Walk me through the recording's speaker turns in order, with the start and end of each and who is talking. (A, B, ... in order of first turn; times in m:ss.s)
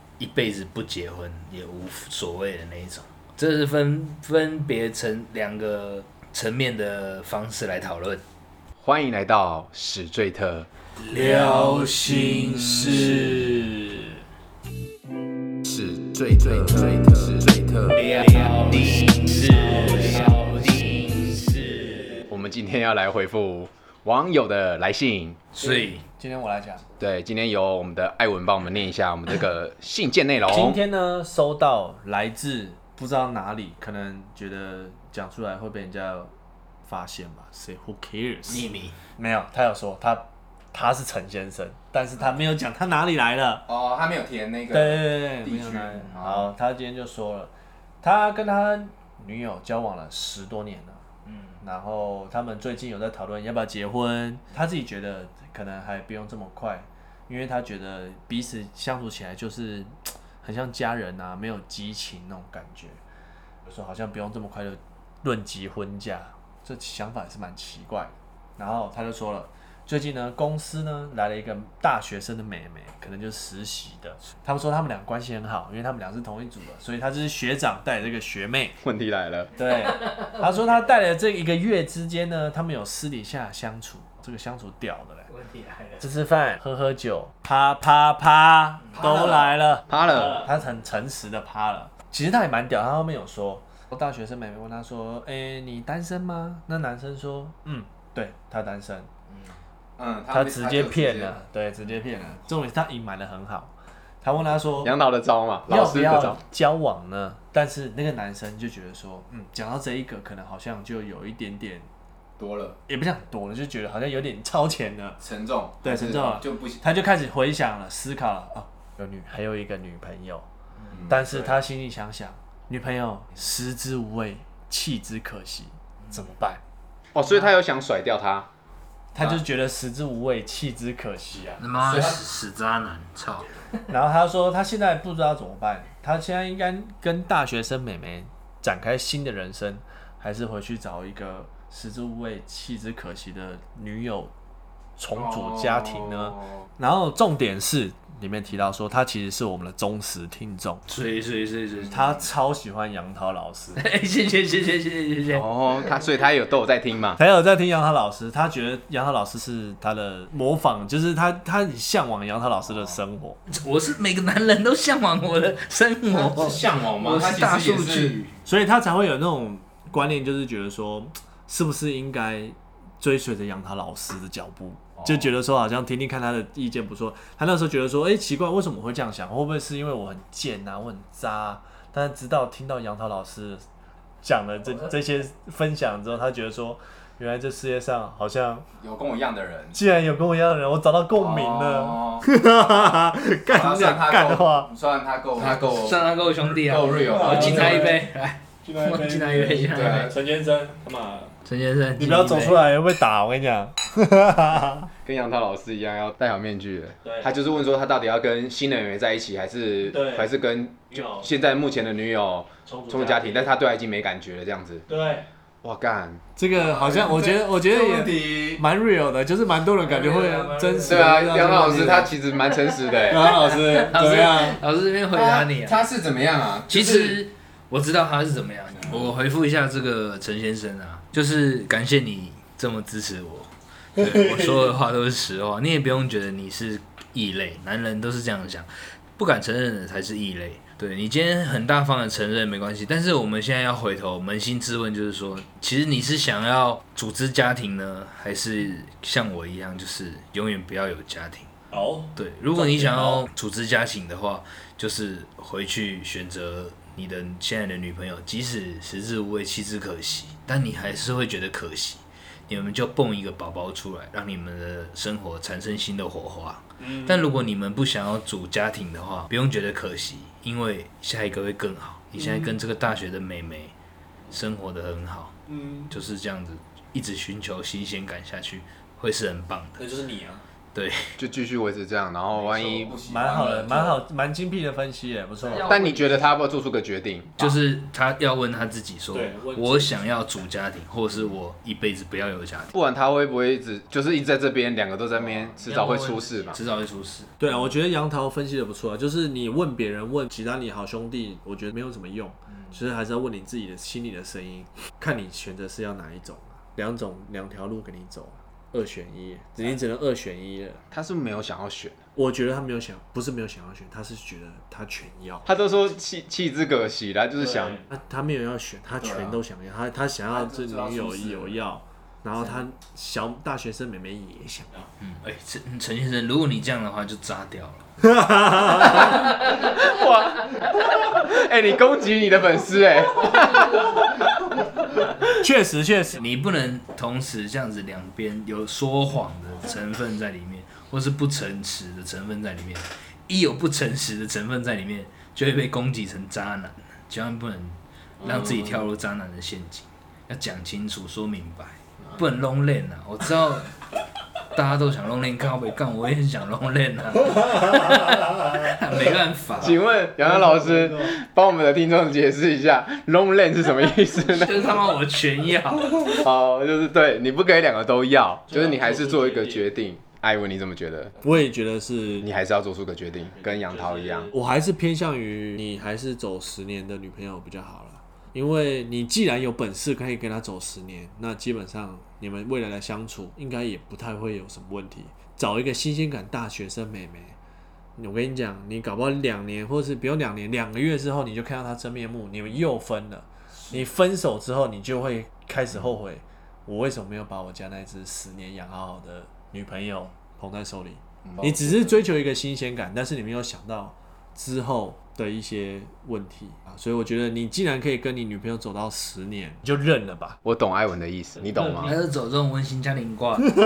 0:00.2-0:08.2 A
0:08.8-0:10.7 B
0:11.0-0:13.5 A
0:11.1-0:14.1 C
0:15.6-0:18.1 B
0:17.9-0:22.2 A
0:18.0-0:20.6 C
0:22.3-0:25.4 B
0:25.5-0:26.0 A
0:25.6-0:26.8 C
0:27.0-0:30.8 B
0:30.5-0:36.3 C
0:36.8-0:43.6 C
0:38.5-0:39.0 A
0:43.6-0:46.5 B
0:44.7-0:47.5 C
0:48.0-0:51.0 C
0:51.3-0:51.6 A
0:51.6-1:03.0 C
1:03.6-1:18.8 C
1:18.8-1:19.5 B
1:19.6-1:25.3 C
1:25.3-1:26.0 A
1:26.0-1:39.1 C
1:28.9-1:29.2 A
1:29.9-1:30.5 B
1:40.0-1:41.4 B
1:40.3-1:44.9 C
1:44.8-1:46.4 B
1:45.7-1:51.9 C
1:52.4-1:52.8 B
1:52.9-1:55.2 C
1:55.2-1:56.8 B
1:55.8-2:00.4 C
2:00.9-2:01.6 B
2:01.1-2:06.6 C
2:07.1-2:08.5 B
2:09.1-2:11.6 C
2:09.2-2:09.4 B
2:11.6-2:13.5 A
2:11.8-2:12.2 B
2:13.9-2:24.3 C
2:25.0-2:30.8 C
2:25.1-2:26.6 B
2:30.9-2:32.3 A
2:31.9-2:33.8 C
2:33.8-2:35.5 A
2:35.3-2:37.2 B
2:37.2-2:43.4 C
2:43.5-2:48.3 A
2:46.1-2:48.2 B
2:48.4-3:03.6 C
3:04.2-3:08.6 C
3:08.8-3:09.8 B
3:09.7-3:14.7 C
3:11.2-3:12.3 B
3:13.5-3:17.9 B
3:15.4-3:20.1 A
3:17.0-3:18.0 C
3:18.6-3:21.3 C
3:19.7-3:20.1 B
3:21.4-3:22.7 A
3:22.0-3:24.9 C
3:25.0-3:34.8 B
3:27.0-3:27.3 C
3:29.9-3:30.3 C
3:30.9-3:31.3 C
3:32.6-3:33.5 C
3:34.9-3:35.3 C
3:35.6-3:38.6 B
3:36.4-3:42.1 C
3:39.8-3:41.2 A
3:40.9-3:43.4 B
3:43.1-3:44.6 C
3:43.3-3:45.8 A
3:45.1-3:47.2 B
3:46.7-4:11.5 A
3:48.8-3:49.1 B
4:11.7-4:13.2 C
4:12.2-4:33.7 A
4:32.2-4:32.5 C
4:34.3-4:35.3 A
4:35.5-4:35.9 C
4:35.9-4:39.8 A
4:39.8-4:40.4 C
4:40.7-4:41.2 A
4:41.2-4:44.0 B
4:42.5-4:45.9 C
4:45.4-4:46.1 A
4:45.6-4:47.6 B
4:47.4-4:52.7 A
4:49.1-4:50.0 C
4:52.7-4:56.6 B
4:55.1-4:55.5 C
4:55.6-4:57.7 A
4:57.4-5:10.8 C
5:02.5-5:02.8 A
5:10.9-5:12.0 B
5:12.1-5:15.5 C
5:15.4-5:17.8 B
5:17.4-5:24.9 C
5:19.0-5:19.4 B
5:20.3-5:21.5 B
5:25.0-5:27.9 A
5:28.0-5:29.0 C
5:28.9-5:29.3 A
5:29.6-5:35.3 B
5:35.4-5:36.2 C
5:36.1-5:53.8 A
5:48.2-5:48.8 B
5:54.4-5:59.8 A
5:59.6-6:04.8 B
6:00.2-6:01.1 C
6:04.2-6:06.2 A
6:06.1-6:11.2 B
6:08.5-6:09.7 C
6:11.2-6:12.3 C
6:12.2-6:14.3 B
6:14.3-6:27.4 C
6:28.0-6:50.4 C
6:41.2-6:41.9 B
6:50.4-6:52.0 B
6:51.4-6:52.0 C
6:51.8-6:53.5 A